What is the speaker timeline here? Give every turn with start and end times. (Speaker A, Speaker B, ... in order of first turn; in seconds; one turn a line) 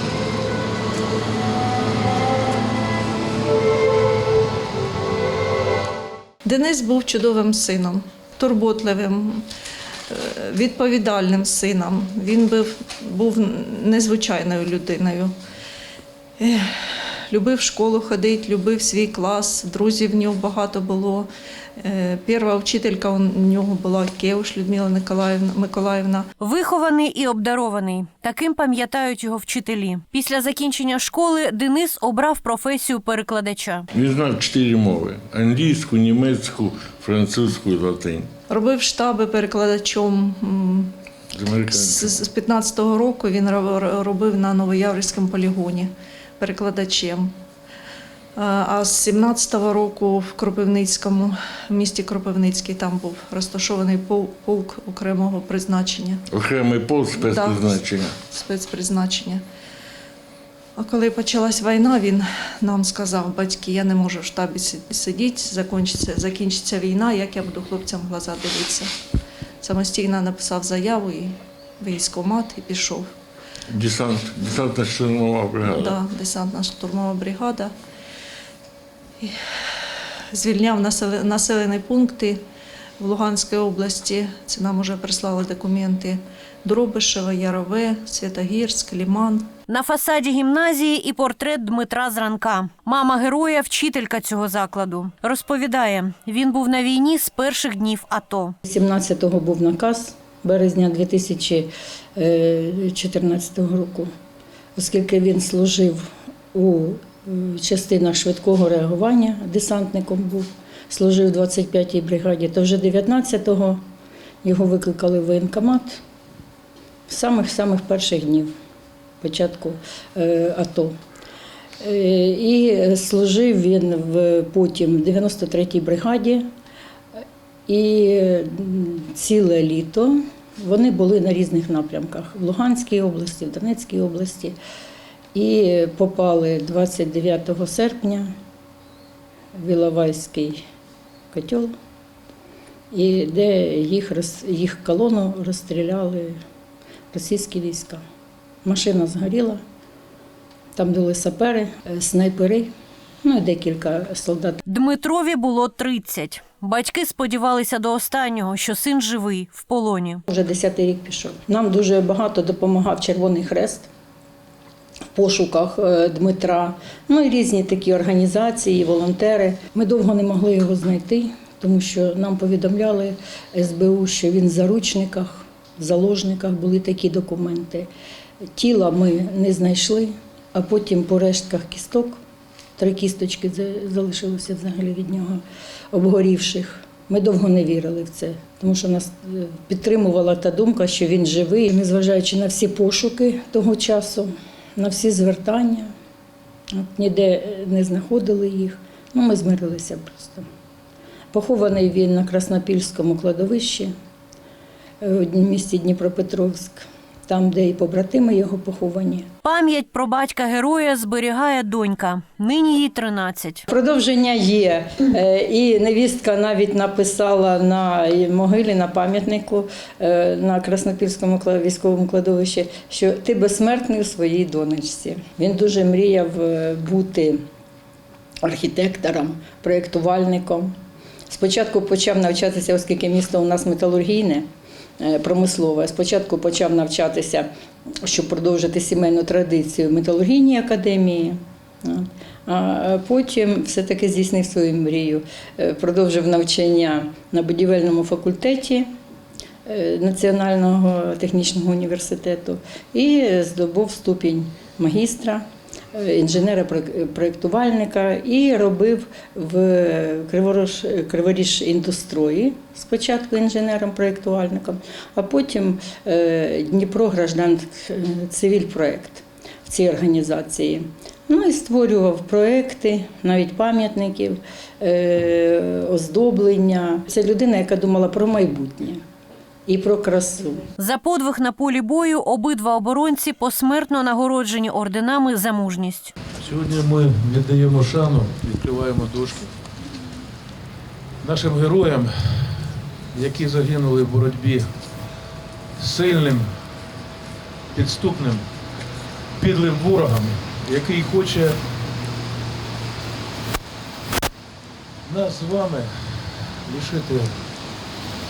Speaker A: 6.5-9.4
Speaker A: 10.1-15.3
Speaker A: 16.4-16.6
Speaker A: 17.3-21.3
Speaker A: 21.8-26.3
Speaker B: 26.4-33.9
Speaker C: 33.9-38.3
Speaker A: 38.5-40.9
Speaker C: 41.4-42.2
Speaker A: 41.7-47.3
Speaker A: 48.4-56.2
Speaker C: 56.3-58.1
Speaker A: 57.1-59.4
Speaker A: 60.8-68.9
Speaker A: 69.6-73.1
Speaker C: 73.7-76.0
Speaker A: 75.7-77.7
Speaker A: 80.3-82.4
Speaker A: 83.0-89.5
Speaker B: 89.7-98.6
Speaker D: 98.7-104.1
Speaker D: 104.8-113.8
Speaker D: 114.4-116.0
Speaker D: 117.1-118.5
Speaker D: 119.2-120.9
Speaker D: 121.8-126.5
Speaker D: 127.7-134.6
Speaker D: 135.3-138.3
Speaker D: 139.6-140.6
Speaker D: 141.3-141.8
Speaker D: 142.9-146.4
Speaker D: 147.1-148.0
Speaker D: 148.7-149.6
Speaker D: 150.8-152.7
Speaker D: 153.2-154.6
Speaker B: 154.7-160.2
Speaker D: 160.3-163.9
Speaker D: 165.1-177.9
Speaker D: 178.6-182.2
Speaker D: 182.8-195.9
Speaker D: 196.7-200.5
Speaker D: 201.3-203.9
Speaker D: 205.0-209.3
Speaker B: 209.4-213.7
Speaker D: 213.7-227.4
Speaker D: 228.4-230.7
Speaker D: 231.3-234.5
Speaker D: 235.0-237.5
Speaker D: 238.0-248.9
Speaker D: 249.7-279.0
Speaker D: 279.7-280.7
Speaker B: 280.8-286.1
Speaker E: 286.4-289.5
Speaker E: 291.2-294.8
Speaker E: 295.8-296.6
Speaker E: 297.7-298.5
Speaker E: 299.4-301.6
Speaker E: 305.1-307.4